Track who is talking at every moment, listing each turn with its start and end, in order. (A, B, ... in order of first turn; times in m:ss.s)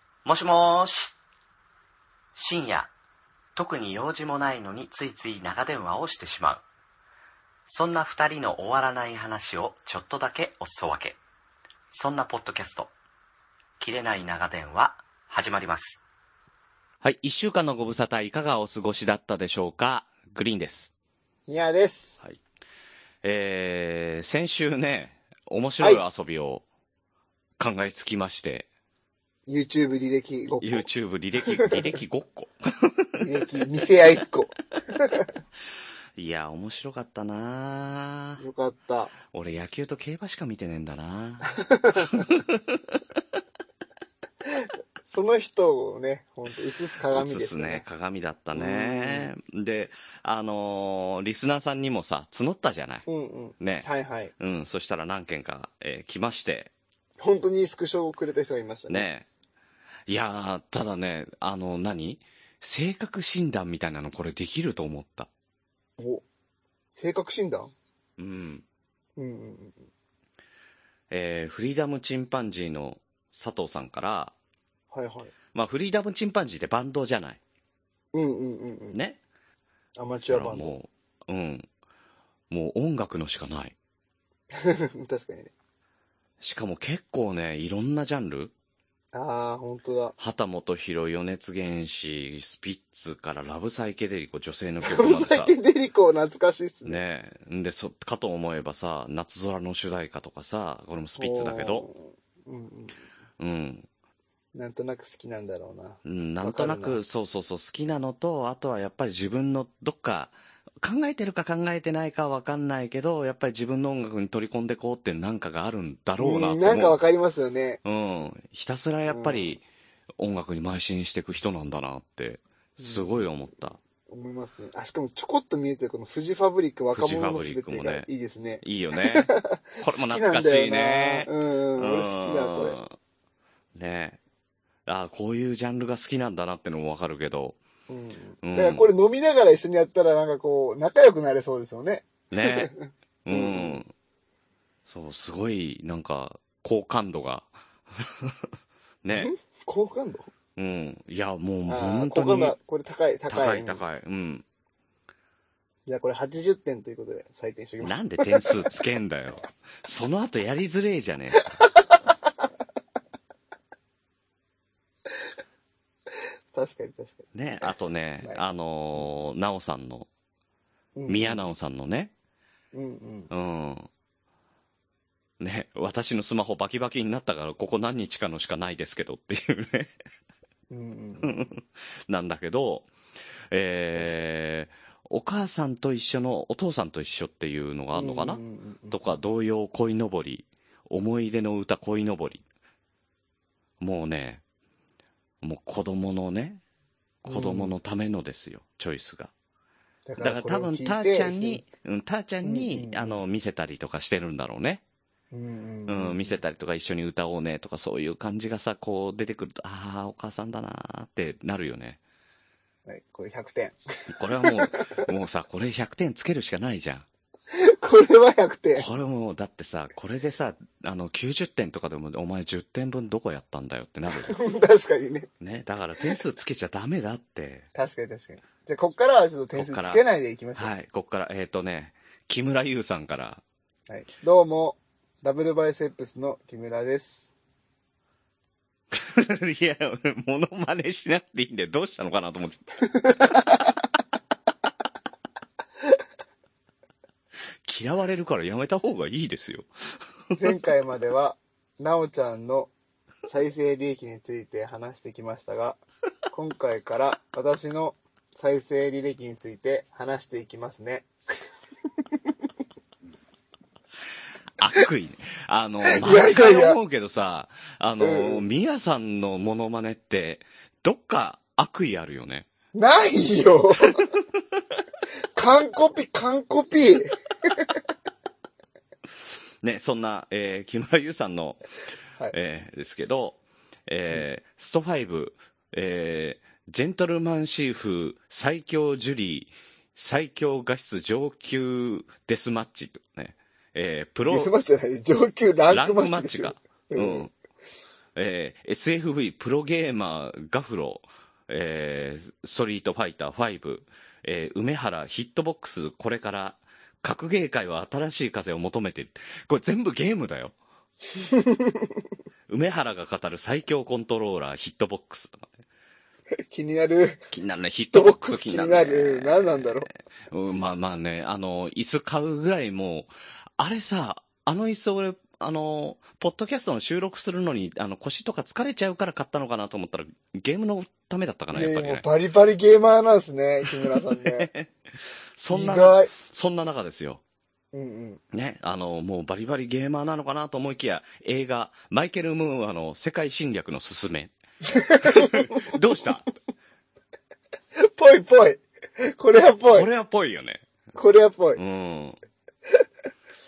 0:00.2-0:01.1 A
0:02.3-0:02.9 A
0:03.6-0:06.6 A
0:07.7-0:11.2 A
0:11.9-0:12.9 A
0:13.8-0:16.0 A
0:17.0-0:20.9 A
0:21.5-0:22.2 B
0:23.2-0:26.6 A
0:27.6-0:28.6 A
0:29.5-0:30.8 B
0:30.6-0:33.2 A
0:31.5-0:31.8 B
0:33.2-0:35.3 B
0:36.2-0:38.4 A
0:38.4-0:39.1 B
0:39.3-0:43.0 A
0:41.5-0:42.3 B
0:44.5-0:47.8 B
0:47.1-0:53.0 A
0:48.5-0:49.3 B
0:53.0-0:54.3 B
0:53.6-0:53.9 A
0:54.4-0:56.7 A
0:57.2-0:59.1 B
0:58.9-0:59.3 A
1:00.1-1:05.3 A
1:06.0-1:06.2 B
1:06.9-1:07.7 B
1:08.2-1:08.6 A
1:09.2-1:09.8 B
1:11.1-1:14.3 A
1:14.9-1:15.3 B
1:15.5-1:17.4 A
1:18.1-1:19.0 B
1:18.9-1:19.2 A
1:20.0-1:20.8 B
1:20.3-1:21.7 A
1:22.5-1:23.7 A
1:24.5-1:25.5 B
1:26.4-1:28.5 A
1:29.1-1:30.1 B
1:30.2-1:35.5 A
1:34.8-1:37.0 B
1:36.8-1:41.9 A
1:41.2-1:43.0 B
1:43.4-1:43.9 A
1:44.5-1:47.0 B
1:46.0-1:57.0 A
1:56.2-1:57.8 B
1:57.8-1:59.6 A
1:59.1-1:59.6 B
2:00.2-2:03.8 A
2:02.8-2:03.1 B
2:04.1-2:12.8 B
2:06.9-2:08.1 A
2:08.6-2:09.3 A
2:09.8-2:12.9 A
2:13.7-2:14.2 A
2:14.8-2:17.6 A
2:17.9-2:23.8 B
2:18.4-2:18.9 A
2:22.3-2:22.7 A
2:23.2-2:23.9 A
2:24.8-2:28.4 A
2:29.0-2:29.3 A
2:29.1-2:30.3 B
2:30.6-2:32.6 A
2:31.7-2:33.8 B
2:33.3-2:34.4 A
2:35.9-2:38.5 B
2:37.8-2:41.5 A
2:41.4-2:42.0 B
2:46.5-2:47.3 B
2:47.3-2:50.1 A
2:51.0-2:51.4 B
2:51.1-2:52.1 A
2:52.7-2:53.3 B
2:53.3-2:53.9 A
2:55.4-2:59.9 A
3:00.7-3:01.5 B
3:01.2-3:02.9 A
3:03.5-3:12.4 A
3:04.0-3:04.2 B
3:07.9-3:09.1 B
3:13.8-3:14.4 A
3:15.4-3:16.6 A
3:17.2-3:19.3 A
3:17.2-3:17.8 B
3:20.0-3:21.6 B
3:20.2-3:24.8 A
3:22.4-3:23.2 B
3:25.3-3:26.4 B
3:25.9-3:32.0 A
3:32.9-3:35.1 B
3:34.1-3:37.0 A
3:37.5-3:38.8 B
3:38.8-3:44.4 A
3:44.1-3:45.3 B
3:45.4-3:47.7 A
3:47.7-3:50.7 B
3:49.6-3:50.0 A
3:50.6-3:53.4 A
3:53.9-3:57.3 B
3:58.9-4:02.6 A
4:02.9-4:03.7 B
4:07.6-4:09.7 A
4:10.3-4:12.7 B
4:13.3-4:15.8 B
4:16.3-4:21.1 B
4:24.6-4:32.5 A
4:25.8-4:26.8 B
4:28.0-4:28.4 B
4:32.7-4:34.1 B
4:35.4-4:37.7 B
4:39.2-4:41.6 A
4:42.3-4:54.5 A
4:54.3-4:57.3 B
4:55.7-4:57.3 A
4:58.2-5:10.5 A
5:11.2-5:11.9 B
5:12.5-5:15.5 A
5:16.5-5:17.2 B
5:17.3-5:32.0 A
5:17.9-5:19.9 B
5:31.5-5:34.5 B
5:33.7-5:37.2 A
5:35.5-5:36.1 B
5:37.7-5:38.2 B
5:38.3-5:44.3 A
5:44.6-5:45.7 B
5:45.0-5:46.3 A
5:47.8-5:49.9 B
5:49.7-5:50.6 A
5:50.9-5:51.6 B
5:51.6-5:52.2 A